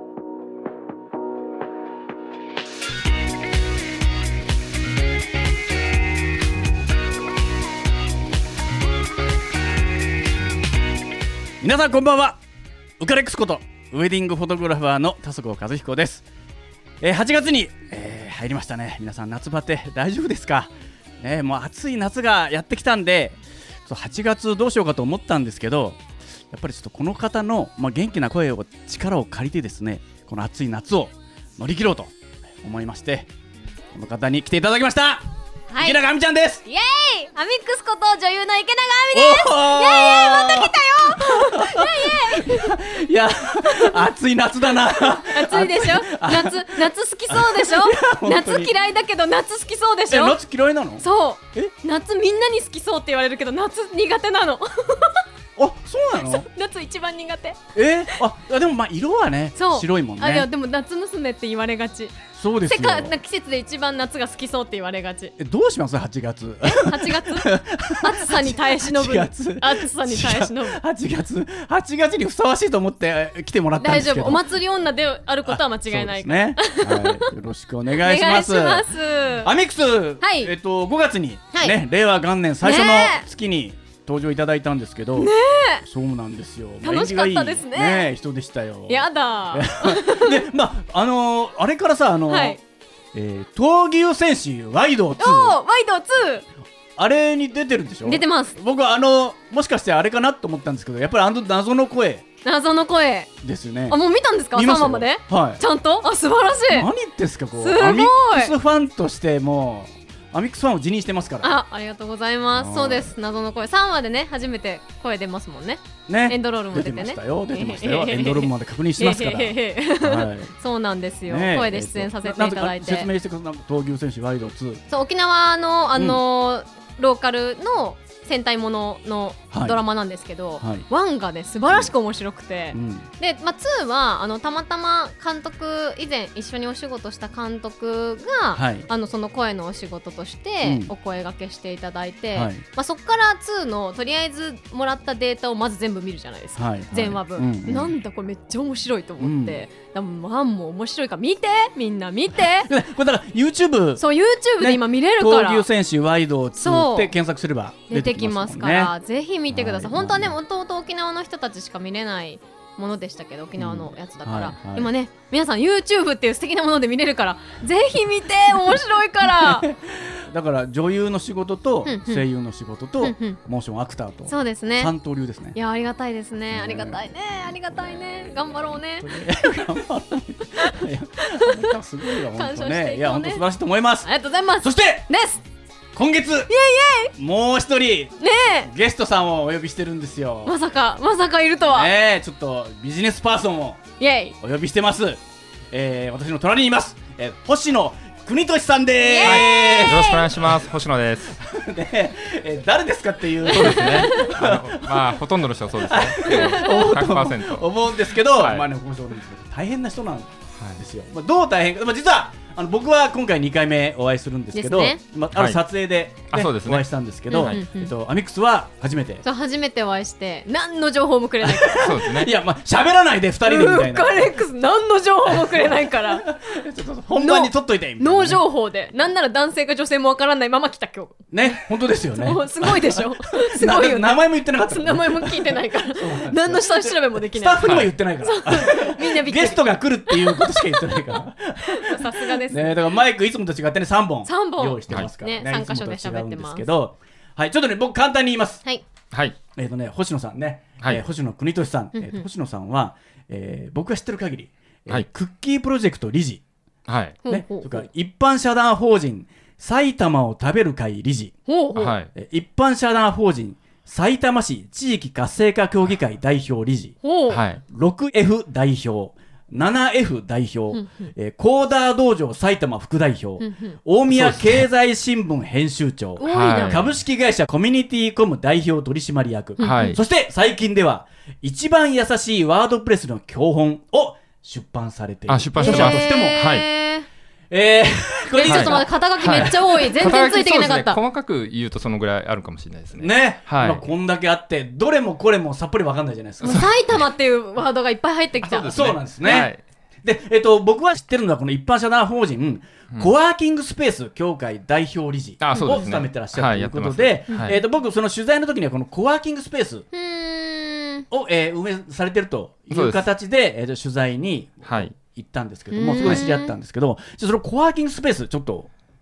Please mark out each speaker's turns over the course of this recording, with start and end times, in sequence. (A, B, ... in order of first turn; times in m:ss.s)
0:11.6-0:12.4 A
0:13.0-0:16.2 A
0:17.0-0:26.0 A
0:26.5-0:33.3 A
0:33.9-0:35.2 A
0:35.7-0:36.0 B
0:35.8-0:36.6 A
0:36.7-0:42.8 B
0:39.1-0:48.7 A
0:43.6-0:44.0 B
0:45.0-0:50.4 B
0:50.1-0:51.7 A
0:51.0-0:55.2 B
0:55.6-0:56.5 A
0:56.2-0:57.6 B
0:57.8-1:00.5 A
0:59.6-1:05.4 B
1:02.4-1:03.1 A
1:05.4-1:14.4 A
1:06.7-1:10.8 B
1:13.8-1:17.3 B
1:15.5-1:18.9 A
1:17.9-1:19.5 B
1:19.4-1:25.3 A
1:20.2-1:20.5 B
1:22.6-1:23.3 B
1:25.2-1:25.8 B
1:25.8-1:32.6 A
1:26.8-1:28.1 B
1:28.9-1:30.5 B
1:32.3-1:32.6 B
1:33.1-1:35.6 A
1:35.2-1:36.5 B
1:37.0-1:42.2 A
1:38.0-1:38.6 B
1:42.4-1:43.3 B
1:43.4-1:44.0 A
1:43.9-1:46.9 B
1:44.5-1:45.6 A
1:46.7-1:51.5 A
1:47.6-1:48.5 B
1:51.4-2:03.1 B
1:52.6-1:53.1 A
1:56.1-2:00.5 A
2:01.3-2:04.8 A
2:04.9-2:32.7 B
2:06.0-2:06.2 A
2:09.5-2:09.8 A
2:10.6-2:10.9 A
2:12.7-2:13.1 A
2:18.5-2:18.9 A
2:20.6-2:20.9 A
2:22.3-2:22.6 A
2:26.6-2:27.9 A
2:29.2-2:29.6 A
2:32.6-2:34.0 A
2:34.0-2:35.7 B
2:34.6-2:38.9 A
2:36.6-2:37.1 B
2:37.9-2:49.7 B
2:39.5-2:40.4 A
2:43.6-2:44.9 A
2:49.4-2:55.6 A
2:51.9-2:52.2 B
2:53.0-2:53.4 B
2:54.3-2:54.9 B
2:55.5-2:59.2 B
2:56.5-2:57.0 A
2:59.0-3:04.1 A
3:00.7-3:01.7 B
3:02.2-3:03.5 B
3:04.0-3:05.4 B
3:04.6-3:05.1 A
3:06.0-3:06.5 A
3:06.5-3:07.1 B
3:07.2-3:10.6 A
3:08.2-3:08.7 B
3:10.5-3:11.9 B
3:11.7-3:13.8 A
3:14.0-3:14.4 B
3:14.4-3:15.2 A
3:15.7-3:20.1 A
3:19.0-3:20.3 B
3:19.2-3:21.4 C
3:21.4-3:25.2 A
3:23.5-3:24.3 B
3:23.5-3:28.6 C
3:25.8-3:39.2 A
3:26.3-3:26.7 B
3:34.6-3:35.0 B
3:35.4-3:35.6 C
3:36.3-3:37.6 C
3:37.3-3:37.9 B
3:39.2-3:42.0 B
3:41.4-3:44.3 A
3:41.8-3:42.3 C
3:43.4-3:46.3 B
3:45.5-3:48.4 A
3:47.2-3:51.3 B
3:51.3-4:08.6 A
3:52.2-4:02.9 B
3:57.6-3:57.9 C
4:04.3-4:06.6 B
4:09.1-4:09.4 C
4:09.6-4:16.4 A
4:12.0-4:12.2 B
4:16.9-4:17.2 C
4:17.2-4:17.8 B
4:17.3-4:21.4 A
4:21.5-4:21.9 B
4:21.8-4:22.1 C
4:22.1-4:27.0 A
4:27.0-4:27.4 B
4:27.3-4:27.6 C
4:27.7-4:46.4 A
4:30.7-4:31.1 B
4:33.4-4:33.8 B
4:34.1-4:34.7 C
4:36.2-4:36.9 B
4:36.2-4:36.8 C
4:39.6-4:40.0 B
4:39.6-4:40.0 C
4:45.3-4:46.7 C
4:45.6-4:47.1 B
4:47.5-4:49.8 A
4:48.3-4:51.0 B
4:48.4-4:53.8 C
4:53.0-4:56.7 A
4:56.4-4:59.5 B
4:56.4-4:57.1 C
4:58.4-4:59.6 C
4:58.7-4:59.5 A
5:00.0-5:09.9 A
5:05.4-5:07.6 C
5:05.5-5:05.9 B
5:09.9-5:11.1 B
5:11.1-5:18.7 A
5:12.7-5:13.1 C
5:14.6-5:15.0 C
5:15.7-5:16.5 B